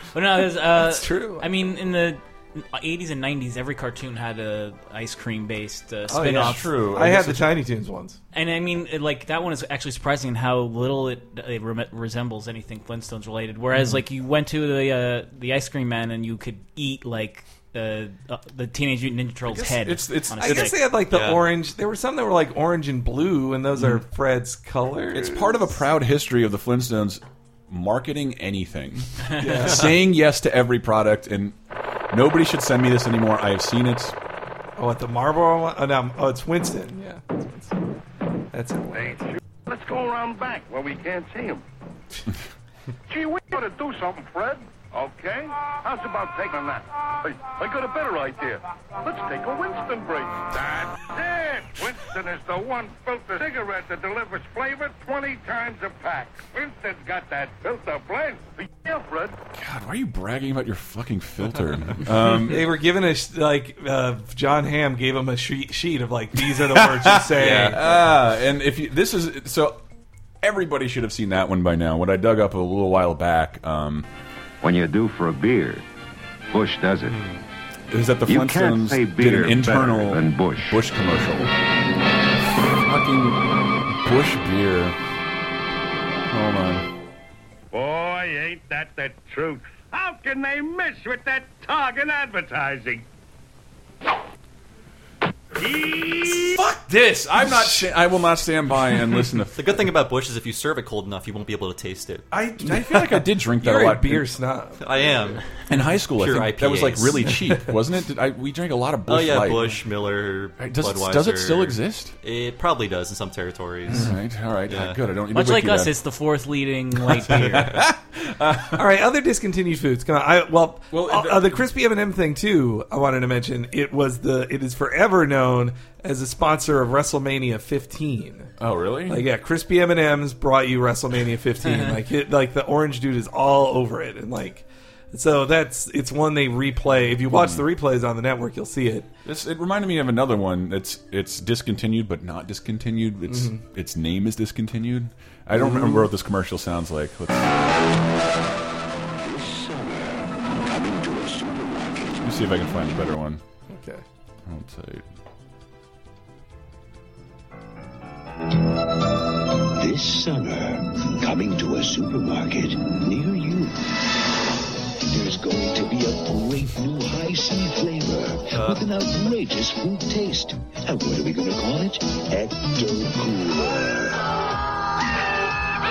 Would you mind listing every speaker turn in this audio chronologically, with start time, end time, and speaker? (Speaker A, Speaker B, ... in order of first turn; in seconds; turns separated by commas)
Speaker A: 0.1-6.7, Speaker B: 0.8-1.5, Speaker B: 6.1-8.2, Speaker C: 6.3-7.5, Speaker A: 8.3-20.9, Speaker C: 19.5-20.7, Speaker B: 20.4-25.8, Speaker D: 21.1-21.4, Speaker C: 25.1-31.6, Speaker B: 29.4-29.9, Speaker C: 32.1-34.2, Speaker B: 34.8-37.8, Speaker B: 38.5-39.2, Speaker E: 38.9-41.6, Speaker E: 43.1-59.4, Speaker C: 59.5-62.7, Speaker B: 62.4-68.0, Speaker C: 66.5-69.8, Speaker D: 67.4-68.0, Speaker C: 70.4-74.1, Speaker F: 74.6-75.8, Speaker F: 76.5-77.1, Speaker D: 77.0-77.4, Speaker C: 77.9-81.5, Speaker F: 78.3-80.7, Speaker C: 82.5-85.0, Speaker C: 86.3-86.9, Speaker E: 87.7-93.0, Speaker E: 95.6-96.6, Speaker C: 96.2-99.8, Speaker D: 99.5-102.3, Speaker C: 102.3-104.3, Speaker B: 102.6-105.4, Speaker D: 104.8-105.4, Speaker C: 105.7-109.7, Speaker D: 106.2-107.5, Speaker D: 109.1-114.1, Speaker C: 110.6-112.1, Speaker C: 113.9-115.9, Speaker D: 114.7-115.0, Speaker A: 115.3-117.8, Speaker C: 116.9-118.9, Speaker D: 117.3-117.8, Speaker B: 118.7-128.5, Speaker C: 120.9-121.6, Speaker C: 128.6-129.2, Speaker B: 129.1-139.1, Speaker C: 137.3-137.6, Speaker C: 139.2-147.7, Speaker B: 143.3-143.6, Speaker B: 145.5-146.1, Speaker G: 149.3-151.6, Speaker C: 152.2-153.4, Speaker B: 153.7-154.0, Speaker C: 154.5-155.0, Speaker G: 159.7-164.2, Speaker G: 165.0-174.3, Speaker D: 168.5-168.9